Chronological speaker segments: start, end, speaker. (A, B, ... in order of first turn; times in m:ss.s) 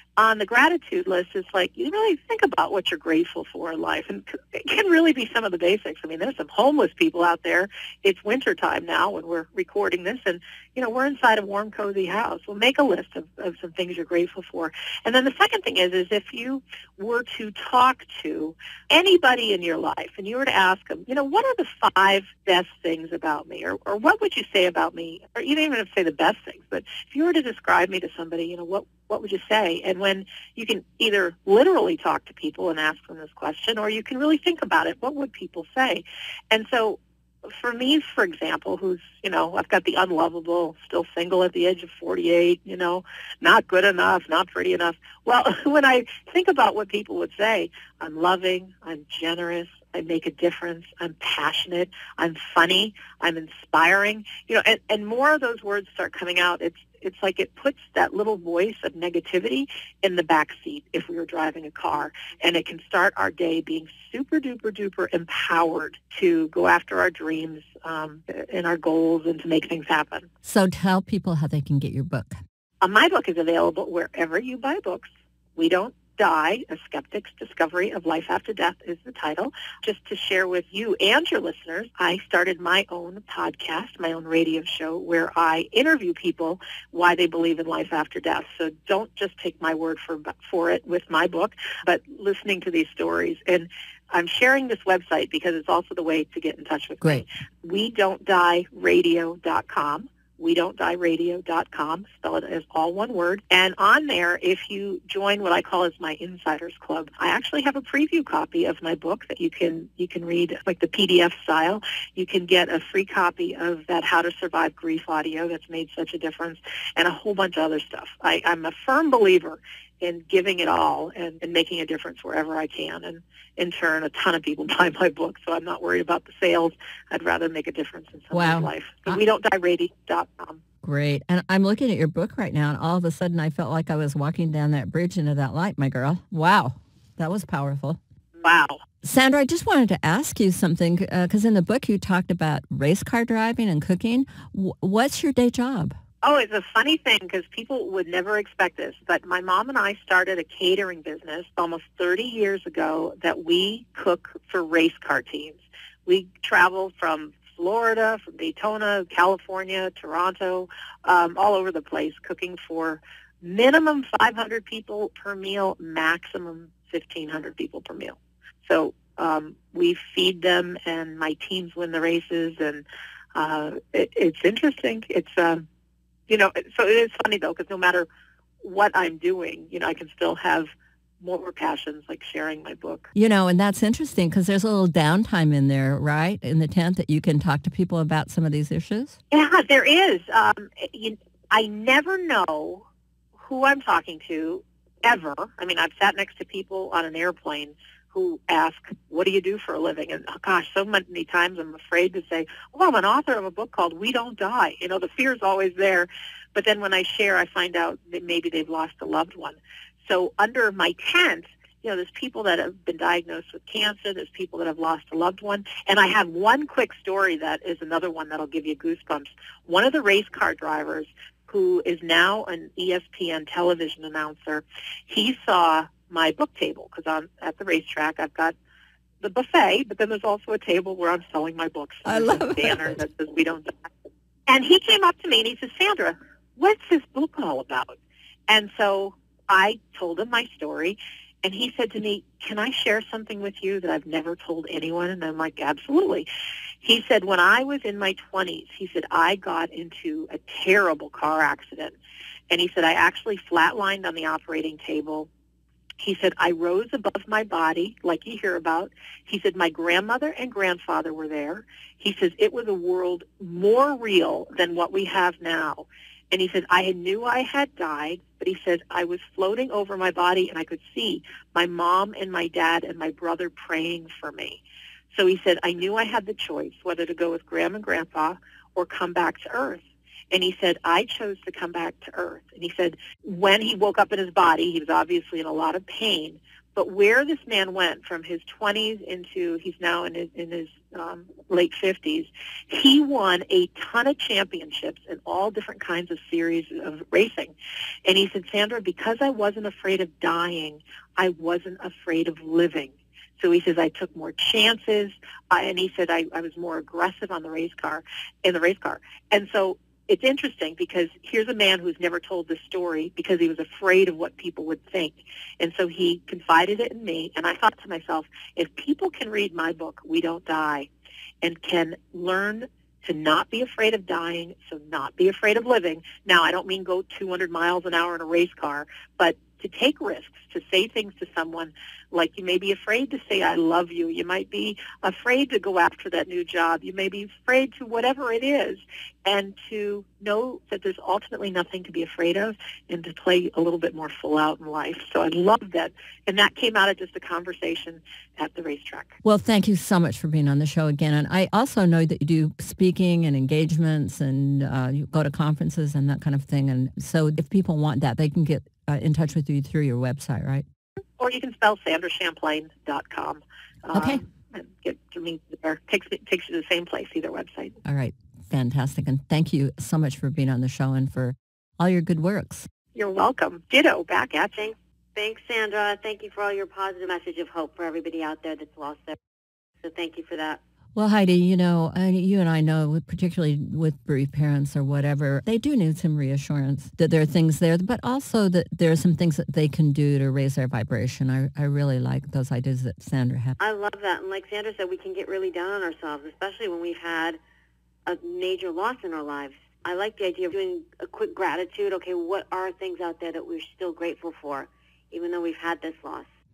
0:00.2-1:10.3 A
1:10.4-1:12.4 B
1:12.8-2:10.6 A
2:08.3-2:09.2 B
2:10.8-2:18.0 B
2:18.4-2:18.8 A
2:19.0-2:26.0 B
2:26.2-2:55.6 A
2:56.3-2:58.1 A
2:58.6-3:03.1 A
3:03.1-3:09.2 B
3:09.3-3:48.6 A
3:49.2-3:53.9 A
3:52.0-3:53.0 B
3:54.5-4:06.3 A
4:06.8-4:12.0 A
4:12.5-4:15.3 A
4:16.0-4:57.5 A
4:58.0-5:20.9 A
5:21.4-5:49.2 A
5:49.2-6:00.6 B
6:01.2-6:07.8 A
6:03.9-6:04.2 B
6:07.8-6:12.7 B
6:12.9-6:14.6 A
6:14.6-6:19.2 C
6:19.8-6:20.6 C
6:21.0-6:33.5 B
6:33.6-6:37.4 C
6:38.0-6:46.3 C